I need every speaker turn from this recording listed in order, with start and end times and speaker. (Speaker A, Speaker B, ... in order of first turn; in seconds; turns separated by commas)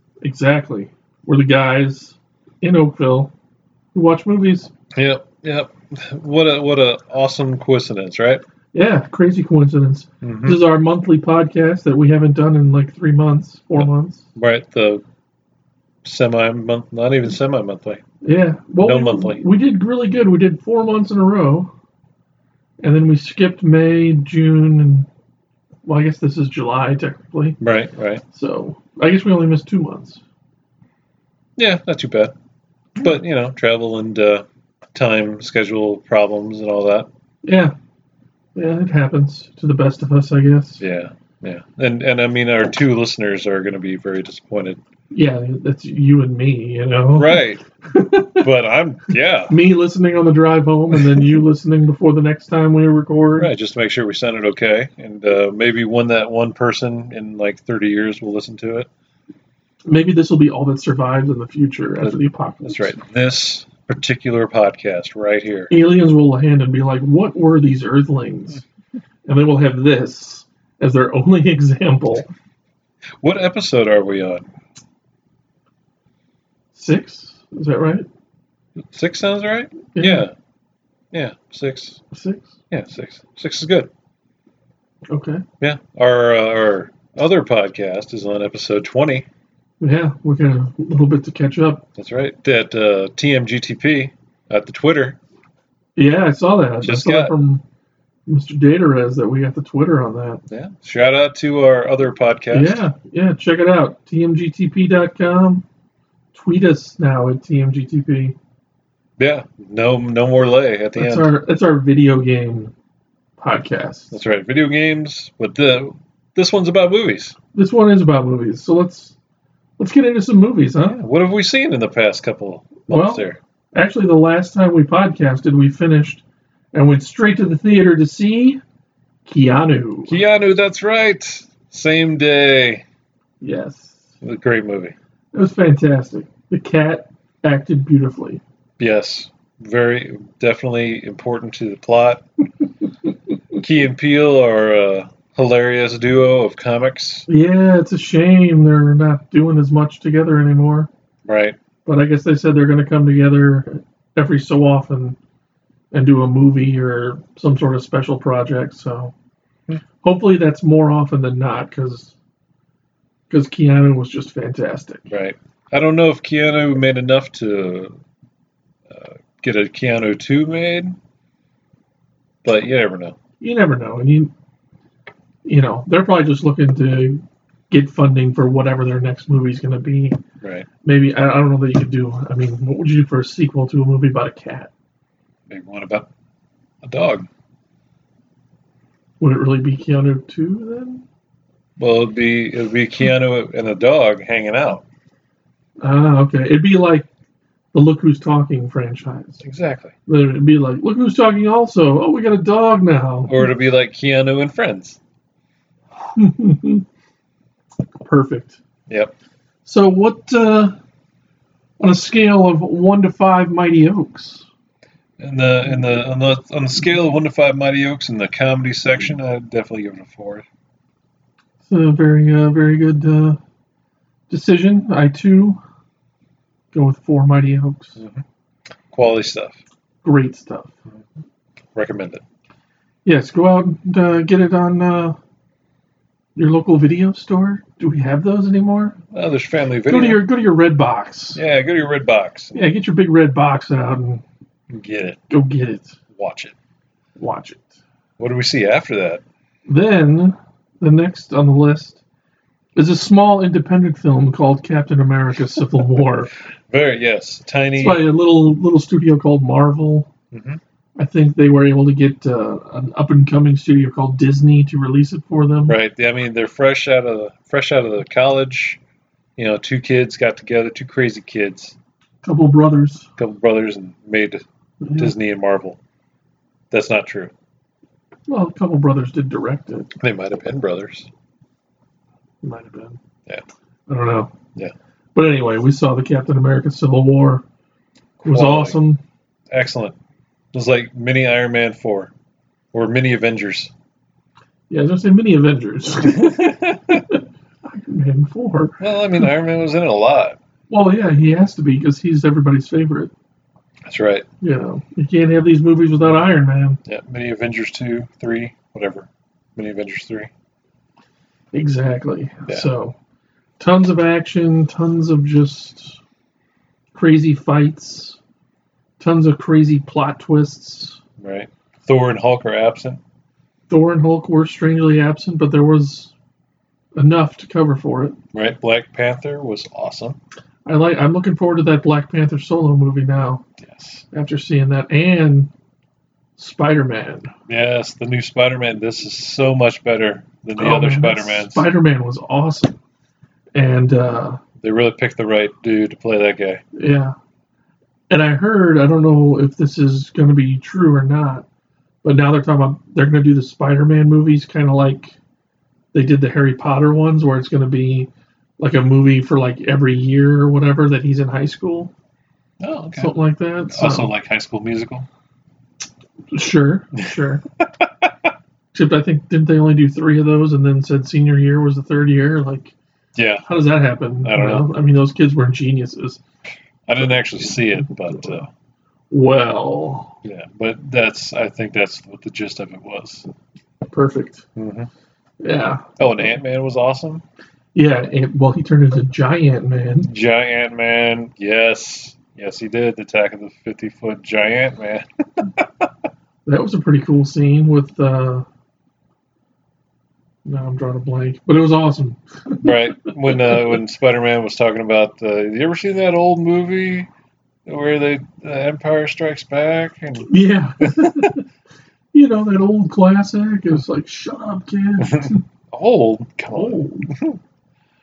Speaker A: 0.2-3.3, Speaker A: 3.9-4.7, Speaker B: 4.9-8.4, Speaker A: 8.7-14.3, Speaker B: 10.2-10.6, Speaker B: 13.8-15.0, Speaker B: 16.0-18.0, Speaker A: 18.2-21.7, Speaker B: 18.8-19.4, Speaker A: 22.8-25.1, Speaker A: 25.9-27.6, Speaker B: 27.6-28.2, Speaker A: 28.3-30.2, Speaker B: 31.6-32.3, Speaker B: 33.0-37.1, Speaker A: 37.4-37.8, Speaker A: 38.5-40.8, Speaker B: 40.8-44.8, Speaker A: 45.1-48.5, Speaker B: 47.1-47.6, Speaker B: 48.4-49.5, Speaker A: 49.5-53.5, Speaker B: 50.9-51.3, Speaker B: 53.4-58.9, Speaker A: 59.9-63.0, Speaker B: 62.0-65.7, Speaker A: 65.7-68.6, Speaker A: 69.3-72.3, Speaker B: 73.2-74.5, Speaker A: 76.7-78.1, Speaker B: 78.8-80.3, Speaker A: 80.0-80.3, Speaker B: 81.1-82.0, Speaker A: 82.1-82.6, Speaker B: 82.7-83.9, Speaker A: 85.1-85.4, Speaker B: 85.6-89.3, Speaker A: 89.8-91.8, Speaker B: 92.0-95.2, Speaker A: 96.0-97.6, Speaker B: 96.8-97.3, Speaker A: 98.3-100.4, Speaker B: 100.5-102.8, Speaker A: 102.5-105.7, Speaker A: 106.3-108.4, Speaker B: 109.2-111.3, Speaker A: 111.0-112.7, Speaker A: 113.4-114.2, Speaker B: 114.1-117.4, Speaker A: 117.5-119.2, Speaker A: 119.8-121.0, Speaker B: 121.0-123.4, Speaker A: 122.9-126.2, Speaker A: 126.7-128.6, Speaker A: 129.3-130.2, Speaker B: 130.1-132.8, Speaker A: 133.4-134.0, Speaker B: 134.2-134.9, Speaker A: 135.3-138.4, Speaker B: 138.8-142.2, Speaker B: 143.6-147.3, Speaker A: 147.3-150.9, Speaker B: 151.2-151.6, Speaker A: 151.8-155.2, Speaker A: 155.9-159.1, Speaker A: 160.0-162.2, Speaker A: 163.3-165.1, Speaker B: 165.1-168.0, Speaker B: 168.9-171.0, Speaker B: 172.4-173.2, Speaker A: 173.4-174.3, Speaker A: 175.4-180.2, Speaker B: 180.4-180.7, Speaker A: 180.8-184.7, Speaker B: 185.5-186.1, Speaker B: 186.8-187.3, Speaker A: 189.2-191.0, Speaker B: 191.8-194.8, Speaker A: 195.8-197.1, Speaker A: 197.7-199.4, Speaker B: 199.4-199.9, Speaker A: 200.1-203.5, Speaker B: 203.3-205.0, Speaker A: 206.2-206.8, Speaker A: 208.0-208.6, Speaker B: 208.9-209.1, Speaker A: 209.7-210.8, Speaker A: 211.8-214.5, Speaker B: 215.2-220.4, Speaker A: 221.6-223.4, Speaker A: 224.3-225.6, Speaker A: 226.7-228.0, Speaker B: 228.0-228.2, Speaker B: 228.9-229.6, Speaker A: 230.0-230.8, Speaker B: 231.8-232.2, Speaker A: 233.1-235.2, Speaker A: 236.4-239.0, Speaker B: 239.1-240.2, Speaker A: 239.9-241.4, Speaker B: 241.3-242.7, Speaker A: 242.6-244.2, Speaker B: 244.7-245.2, Speaker A: 245.3-246.0, Speaker B: 246.2-246.5, Speaker A: 247.2-247.8, Speaker B: 248.2-249.2, Speaker A: 249.7-252.0, Speaker A: 252.8-256.3, Speaker B: 256.7-258.0, Speaker A: 257.8-260.1, Speaker B: 260.3-260.6, Speaker A: 261.0-265.8, Speaker B: 265.7-268.8, Speaker B: 269.4-271.8, Speaker A: 272.2-273.1, Speaker B: 273.2-274.4, Speaker A: 274.8-275.1, Speaker B: 275.0-275.8, Speaker B: 276.7-277.3, Speaker A: 278.3-279.9, Speaker B: 280.0-281.1, Speaker A: 282.4-283.0, Speaker A: 283.9-284.3, Speaker A: 285.1-287.4, Speaker B: 288.2-288.8, Speaker A: 288.2-289.0, Speaker B: 289.5-290.0, Speaker B: 290.5-292.1, Speaker B: 292.7-293.7, Speaker A: 294.7-296.4, Speaker B: 296.0-297.1, Speaker A: 297.1-299.2, Speaker B: 298.8-300.4, Speaker A: 300.7-303.1, Speaker B: 303.9-304.3, Speaker A: 304.4-306.8, Speaker B: 306.9-310.3, Speaker A: 311.5-313.0, Speaker A: 313.6-316.0, Speaker A: 316.9-318.2, Speaker A: 319.0-321.0, Speaker B: 321.2-323.0, Speaker A: 323.7-326.1, Speaker A: 327.0-328.2, Speaker B: 328.3-330.2, Speaker A: 330.7-333.4, Speaker B: 333.6-334.1, Speaker A: 334.1-335.5, Speaker A: 336.4-337.3, Speaker B: 337.5-341.7, Speaker A: 340.6-342.8, Speaker A: 343.6-344.4, Speaker B: 344.6-346.6, Speaker A: 346.8-347.1, Speaker A: 348.1-351.4, Speaker A: 352.0-355.1, Speaker A: 355.9-361.9, Speaker B: 362.6-363.1, Speaker A: 362.9-364.1, Speaker B: 363.7-365.1, Speaker A: 366.3-367.4, Speaker B: 367.6-368.1, Speaker A: 368.7-372.8, Speaker B: 373.2-373.5, Speaker A: 373.5-376.2, Speaker B: 374.2-374.7, Speaker B: 376.9-378.5, Speaker A: 377.8-378.5, Speaker A: 379.1-380.2, Speaker B: 380.2-383.3, Speaker A: 383.9-384.5, Speaker B: 384.6-384.9, Speaker A: 385.4-386.0, Speaker B: 386.0-387.2, Speaker A: 387.7-390.1, Speaker B: 390.1-395.9, Speaker A: 396.5-398.5, Speaker A: 400.4-403.7, Speaker B: 402.6-407.1, Speaker B: 407.7-411.3, Speaker A: 410.3-411.4, Speaker A: 412.1-415.4, Speaker B: 415.0-417.4, Speaker A: 416.5-417.1